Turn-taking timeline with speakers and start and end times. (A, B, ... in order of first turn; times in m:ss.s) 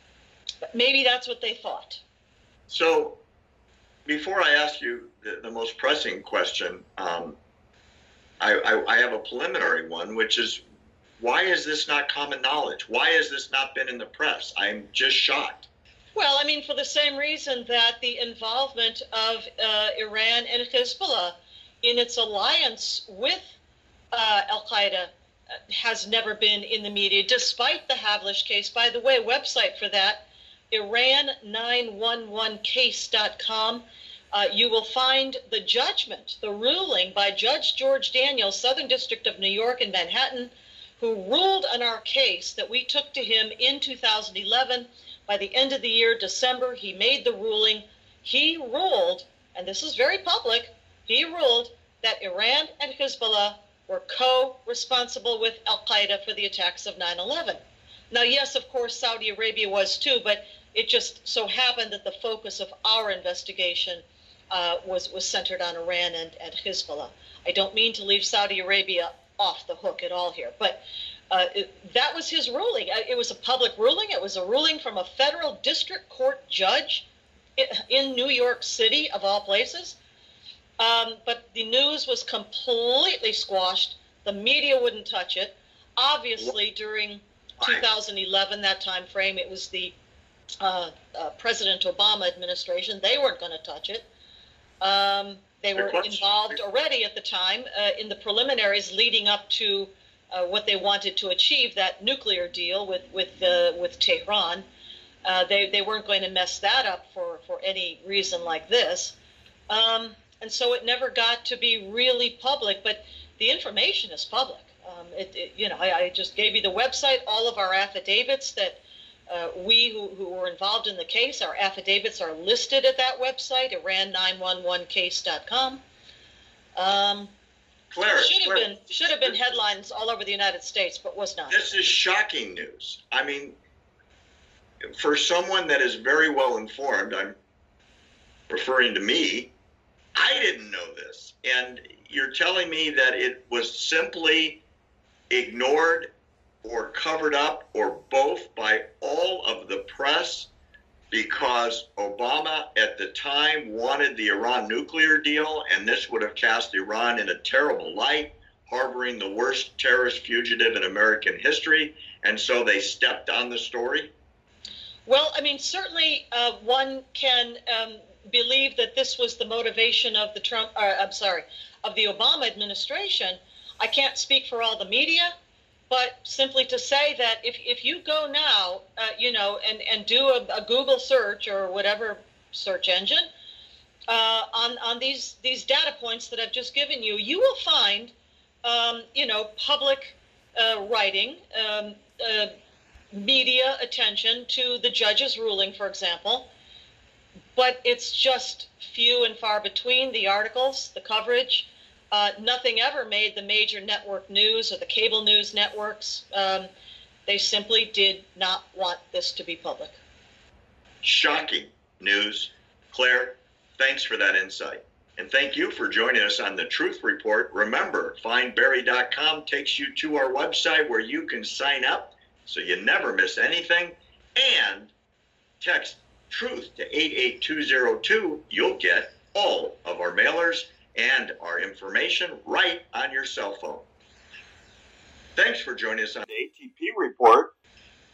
0:00.7-0:02.0 A
0:02.7-0:03.2 B
0:04.1-0:07.4 B
0:08.4-0:10.6 B
0:11.2-0:15.7 B
0:16.2-0:23.6 A
0:24.1-0:25.1 A
0:25.7-0:57.6 A
0:58.1-1:17.1 A
1:17.6-1:20.0 A
1:20.8-1:29.9 A
1:27.6-1:27.8 B
1:30.6-1:34.1 A
1:34.8-1:44.6 A
1:35.8-1:36.4 B
1:45.2-1:49.2 A
1:49.7-2:05.8 A
2:06.8-2:07.3 A
2:07.9-2:09.4 B
2:08.0-2:11.7 A
2:11.5-2:13.6 B
2:14.9-2:17.4 B
2:18.5-2:19.5 B
2:20.2-2:24.6 B
2:25.3-2:26.1 B
2:26.6-2:30.5 B
2:31.1-2:44.1 B
2:45.1-2:55.3 A
2:55.9-3:03.3 A
3:04.1-3:08.1 A
3:08.6-3:12.5 A
3:13.1-3:16.5 A
3:17.6-3:26.7 A
3:27.3-3:30.0 A
3:31.0-3:44.9 B
3:45.6-3:53.9 B
3:55.4-3:57.5 B